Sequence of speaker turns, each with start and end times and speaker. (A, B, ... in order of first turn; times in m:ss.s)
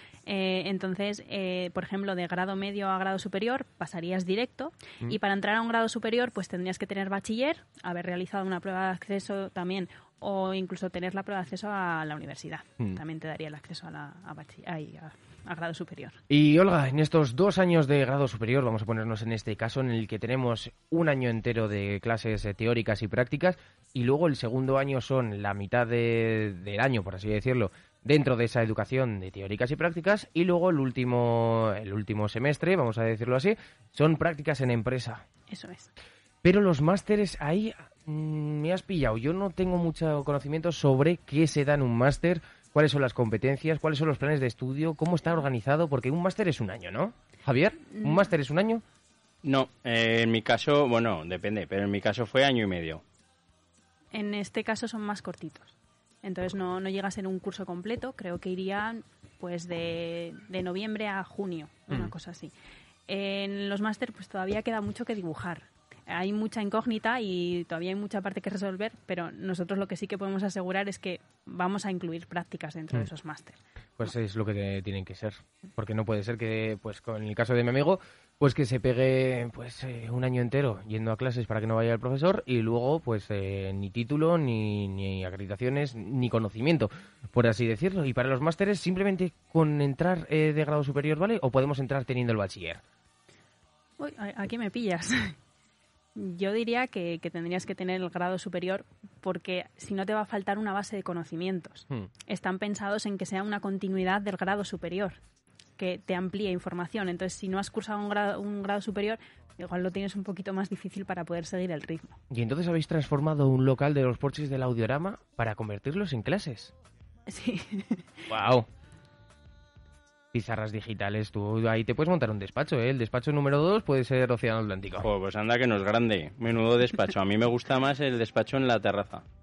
0:00.3-0:16.2 A
0:16.3-0:35.2 B
0:35.5-0:35.9 A
0:36.4-0:48.8 B
0:49.4-0:53.0 C
0:54.1-1:02.5 A
1:03.1-1:13.6 A
1:14.0-1:32.8 B
1:34.0-1:35.4 A
1:36.2-1:45.2 A
1:45.8-1:52.2 A
1:52.3-1:56.7 B
1:57.3-1:58.0 A
1:58.3-1:58.7 B
2:00.3-2:05.1 B
2:05.0-2:09.2 C